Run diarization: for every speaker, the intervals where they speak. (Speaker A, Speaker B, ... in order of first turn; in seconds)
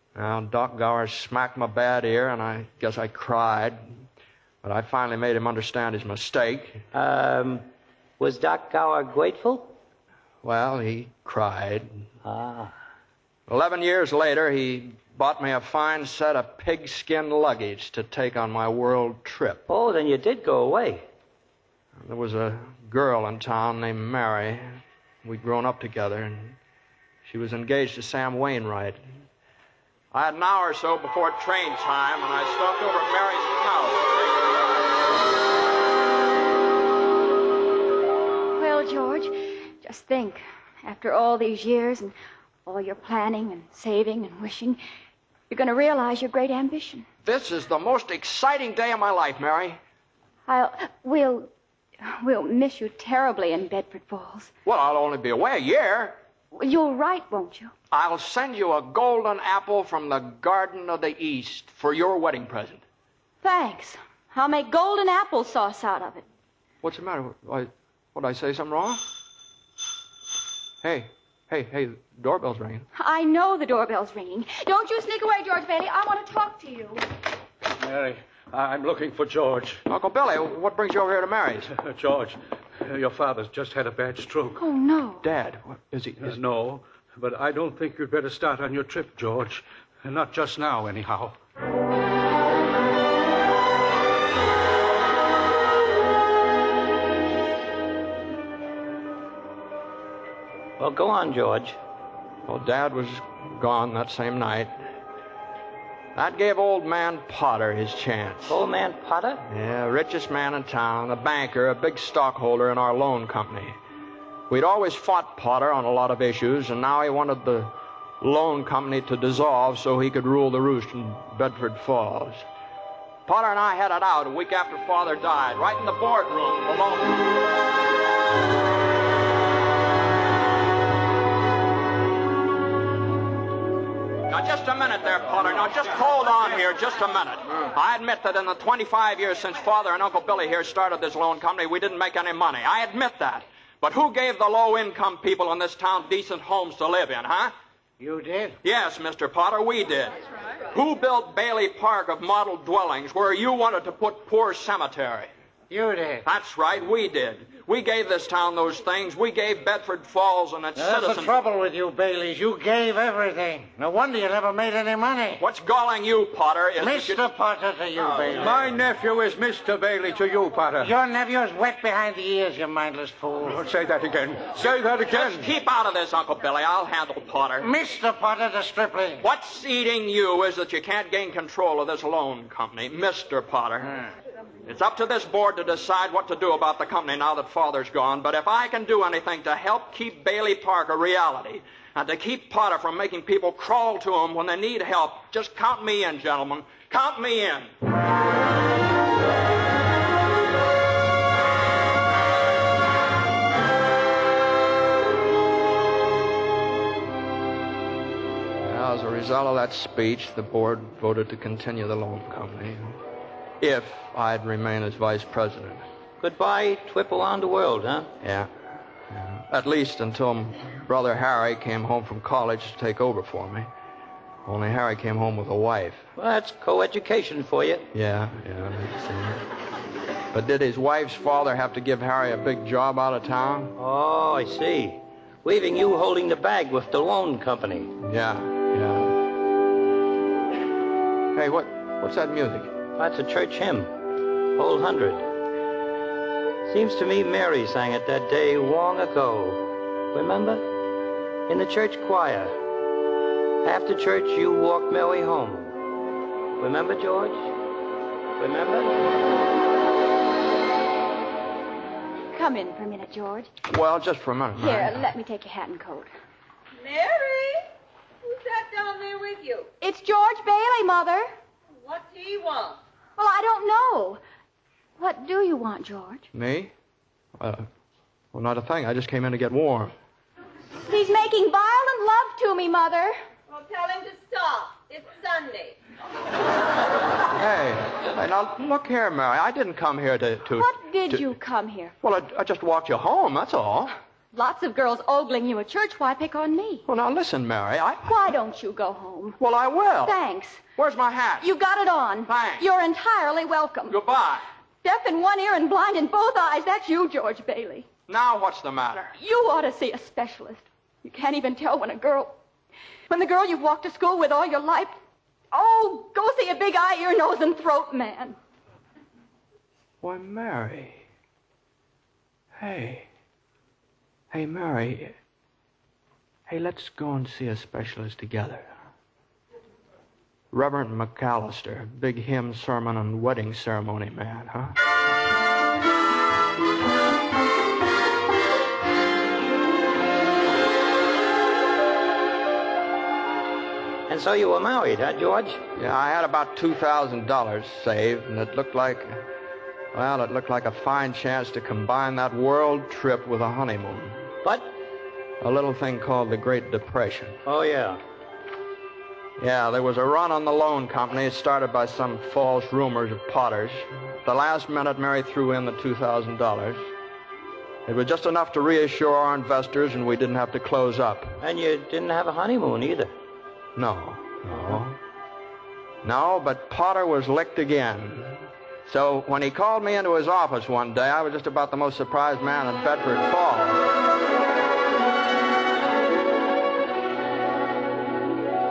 Speaker A: 0.1-3.8, 4.6-6.8, 10.4-12.0, 13.5-19.6, 22.0-26.6, 27.2-29.0, 30.1-34.6, 47.2-49.8, 54.6-56.2, 57.9-62.8, 66.8-69.0, 70.8-72.9, 79.9-81.7, 85.2-86.4, 102.5-104.7, 106.2-108.6, 109.5-113.8, 114.5-122.5, 123.3-127.2, 134.3-147.5, 148.6-150.1, 150.7-155.3, 156.2-161.4, 165.4-167.2, 174.6-177.7, 179.2-184.1, 184.7-197.7, 208.6-213.0, 213.6-215.8, 218.2-218.5, 219.1-223.7, 224.5-226.0, 227.9-229.4, 230.3-233.7, 238.0-239.1, 241.3-242.7, 263.7-265.1, 276.3-276.7, 277.4-277.7, 278.3-279.9, 287.3-291.3, 292.0-293.9, 296.9-298.3, 299.4-300.2, 300.8-301.5, 302.3-302.7, 303.9-304.4, 308.1-309.1, 320.0-321.1, 322.6-323.1, 324.3-325.1, 326.5-328.7, 330.5-334.8, 345.8-349.1, 349.9-354.3, 355.4-357.4, 359.4-366.8, 367.9-371.4, 373.8-375.0, 376.0-383.8
Speaker B: 6.9-7.6, 8.2-9.7, 12.2-12.7, 19.7-21.1, 100.8-101.8, 108.5-109.4, 216.2-218.1, 226.2-227.9, 233.8-237.9, 243.0-243.9, 244.6-245.3, 246.7-250.6, 251.5-252.6, 253.6-255.8, 256.6-257.5, 258.4-258.9, 344.1-345.6, 354.4-354.7, 357.4-358.0, 371.4-373.1
Speaker C: 38.6-42.1, 42.7-44.8, 45.5-47.0, 50.5-51.5, 52.0-54.5, 56.5-57.7, 63.4-66.2, 73.0-77.0, 84.6-85.3, 262.3-263.5, 264.6-266.1, 269.8-271.2, 273.2-274.2, 275.0-276.3, 280.8-283.1, 290.5-291.9, 294.3-296.9, 298.1-299.4, 300.0-300.7, 301.4-304.0, 304.8-307.9, 309.2-312.3, 313.1-314.9, 315.5-318.4
Speaker D: 77.8-79.8, 81.8-84.6, 86.2-91.4, 168.3-170.9, 173.5-175.5
Speaker E: 148.0-148.6, 155.7-156.3, 160.8-165.4, 166.8-168.8, 170.8-173.6, 177.6-179.2
Speaker F: 266.8-267.6, 268.2-269.7, 271.8-272.8, 283.5-285.7